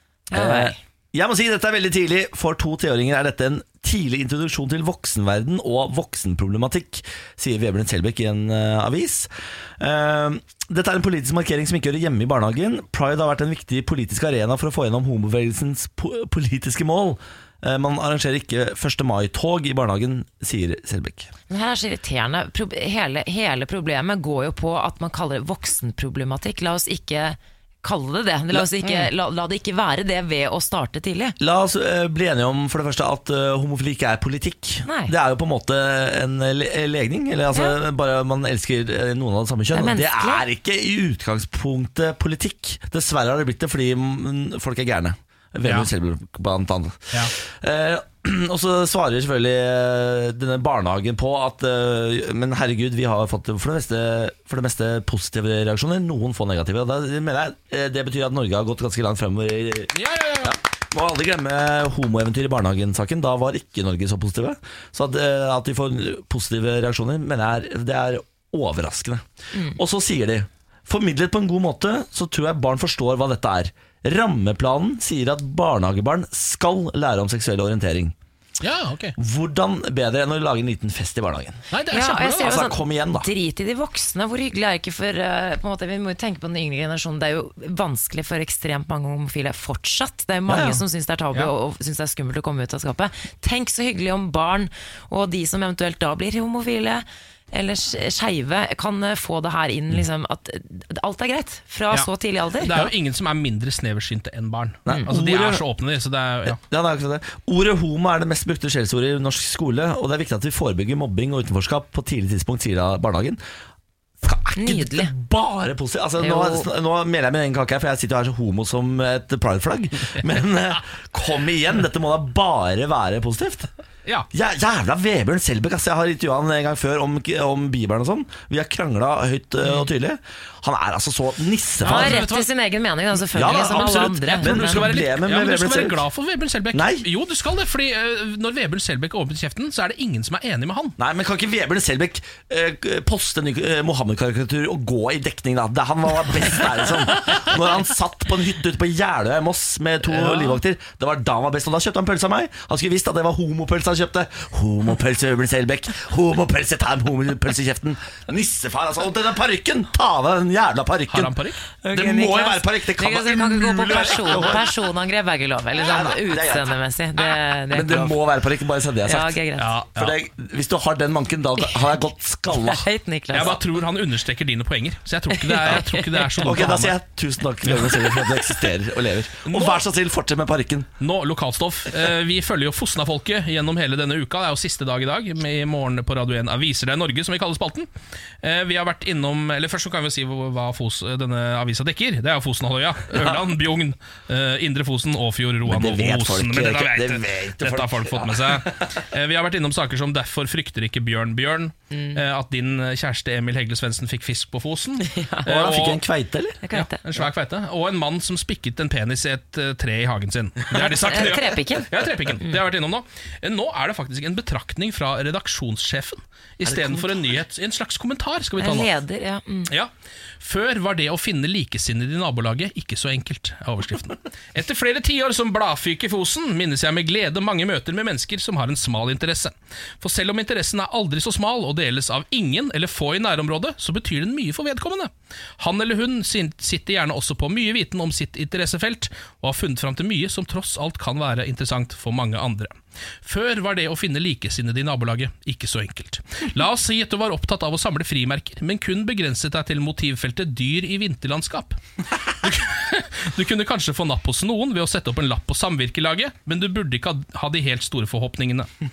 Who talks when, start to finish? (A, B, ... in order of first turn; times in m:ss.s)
0:00.3-0:00.8 A
0:00.3-0:21.3 B
0:21.5-0:31.4 A
0:28.5-0:29.0 B
0:31.4-1:18.1 B
0:34.8-0:35.1 A
0:39.7-0:40.4 A
0:45.6-0:45.9 C
0:59.9-1:00.6 C
1:09.5-1:09.8 A
1:18.6-1:19.2 C
1:19.2-1:21.6 B
1:21.7-1:22.6 C
1:21.9-1:42.9 A
1:22.3-1:23.3 B
1:30.5-1:30.8 B
1:41.9-1:46.6 C
1:44.8-1:45.6 B
1:46.4-1:53.4 B
1:54.2-2:03.7 B
1:54.5-1:55.1 A
1:56.2-1:56.7 A
2:04.3-2:12.2 B
2:11.8-2:12.5 C
2:11.8-2:14.9 A
2:13.3-2:16.0 B
2:13.3-2:21.0 C
2:16.7-2:17.1 B
2:21.0-2:44.7 B
2:41.1-2:41.6 C
2:41.8-2:48.2 A
2:45.7-2:46.7 B
2:47.7-2:49.4 B
2:49.0-2:49.7 A
2:49.6-2:50.2 C
2:49.9-2:52.8 B
2:52.5-2:53.6 A
2:53.3-2:57.0 C
2:55.3-2:56.5 A
2:56.4-3:00.9 B
2:57.6-2:58.1 C
2:59.4-2:59.8 C
3:01.0-3:07.9 C
3:08.4-3:26.0 C
3:15.6-3:18.7 B
3:21.9-3:22.2 A
3:25.0-3:25.5 A
3:25.4-3:26.6 B
3:26.6-3:27.0 A
3:26.7-3:38.9 C
3:30.8-3:32.6 A
3:36.6-3:37.2 B
3:38.6-3:39.7 A
3:39.7-4:18.7 C